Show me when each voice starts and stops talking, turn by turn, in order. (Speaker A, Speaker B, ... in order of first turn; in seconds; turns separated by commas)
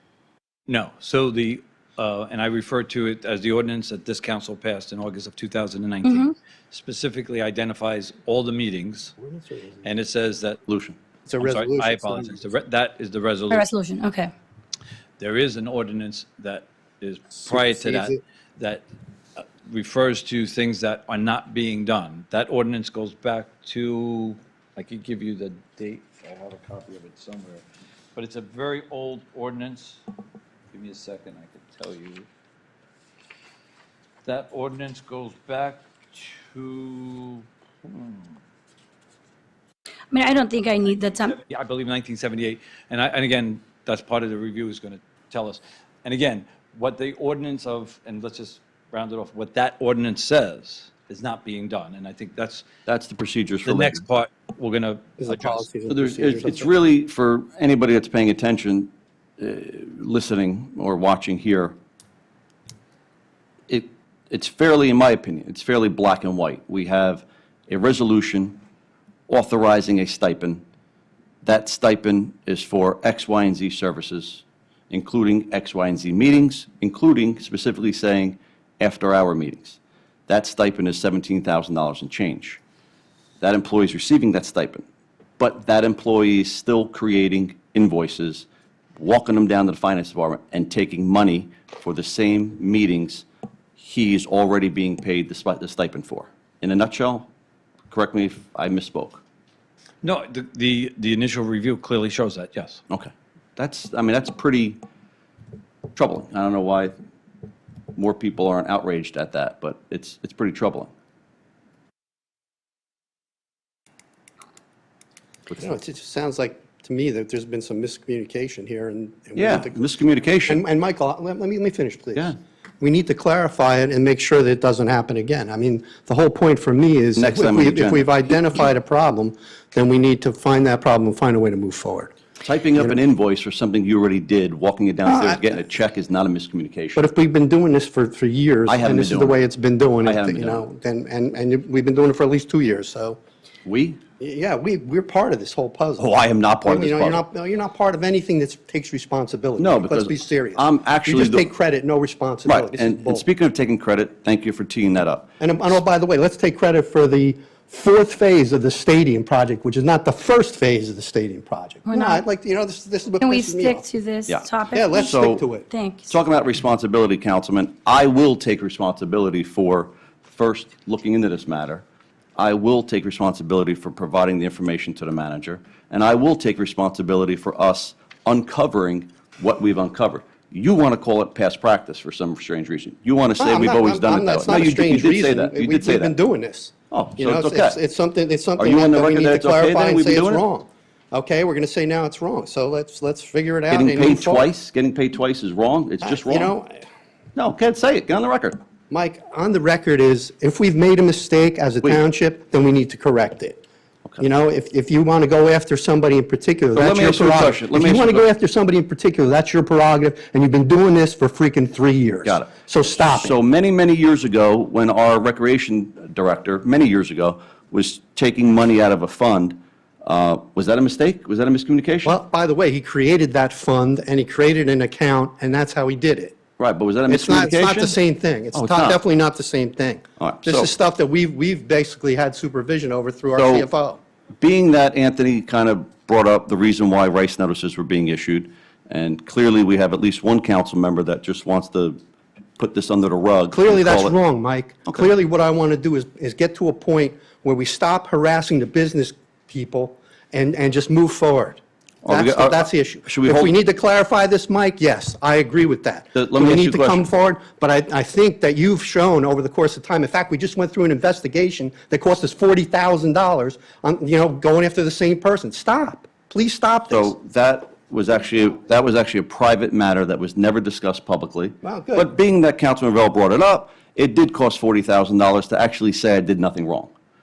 Speaker A: 0.7-9.1, Speaker B: 6.0-6.3, Speaker C: 9.2-9.9, Speaker A: 9.8-10.6, Speaker D: 10.7-11.0, Speaker C: 11.2-12.4, Speaker A: 11.4-13.7, Speaker B: 13.5-14.3, Speaker A: 15.2-18.8, Speaker C: 17.5-18.2, Speaker A: 19.6-30.0, Speaker A: 30.7-32.3, Speaker A: 34.2-38.3, Speaker B: 40.1-41.4, Speaker A: 41.4-52.6, Speaker D: 52.9-54.0, Speaker A: 53.6-55.7, Speaker C: 55.2-56.7, Speaker D: 55.9-61.8, Speaker D: 63.7-68.6, Speaker D: 69.3-70.6, Speaker D: 71.4-82.6, Speaker D: 83.4-84.8, Speaker D: 85.4-88.5, Speaker D: 89.0-93.2, Speaker D: 93.8-97.3, Speaker D: 97.9-99.2, Speaker A: 100.0-102.8, Speaker D: 102.9-104.8, Speaker D: 105.9-106.9, Speaker D: 107.9-110.9, Speaker C: 115.6-119.8, Speaker D: 119.3-120.6, Speaker C: 120.5-122.3, Speaker C: 122.8-132.1, Speaker D: 127.2-128.1, Speaker D: 132.4-137.1, Speaker C: 135.1-135.4, Speaker C: 136.9-143.2, Speaker D: 138.7-139.4, Speaker D: 140.0-140.6, Speaker D: 143.6-144.0, Speaker C: 144.2-146.1, Speaker D: 146.0-147.2, Speaker C: 146.6-153.2, Speaker D: 149.6-151.5, Speaker D: 152.4-155.3, Speaker C: 155.4-163.8, Speaker B: 161.9-162.2, Speaker B: 163.2-166.1, Speaker D: 164.3-165.4, Speaker C: 164.7-165.7, Speaker D: 166.1-171.8, Speaker D: 172.3-186.1, Speaker C: 183.4-194.4, Speaker D: 186.9-187.8, Speaker D: 188.6-190.4, Speaker D: 193.7-196.5, Speaker C: 196.0-196.8, Speaker D: 197.3-198.6, Speaker C: 198.9-203.6, Speaker C: 204.2-213.3, Speaker D: 206.7-208.3, Speaker D: 212.2-222.2, Speaker C: 222.0-226.4, Speaker D: 226.6-228.0, Speaker C: 227.1-234.0, Speaker D: 228.5-229.0, Speaker D: 230.2-230.7, Speaker D: 233.3-233.7, Speaker D: 234.4-242.0, Speaker D: 242.6-244.1, Speaker C: 243.5-267.1, Speaker D: 252.0-253.5, Speaker D: 256.1-257.1, Speaker D: 266.9-276.9, Speaker C: 271.6-272.1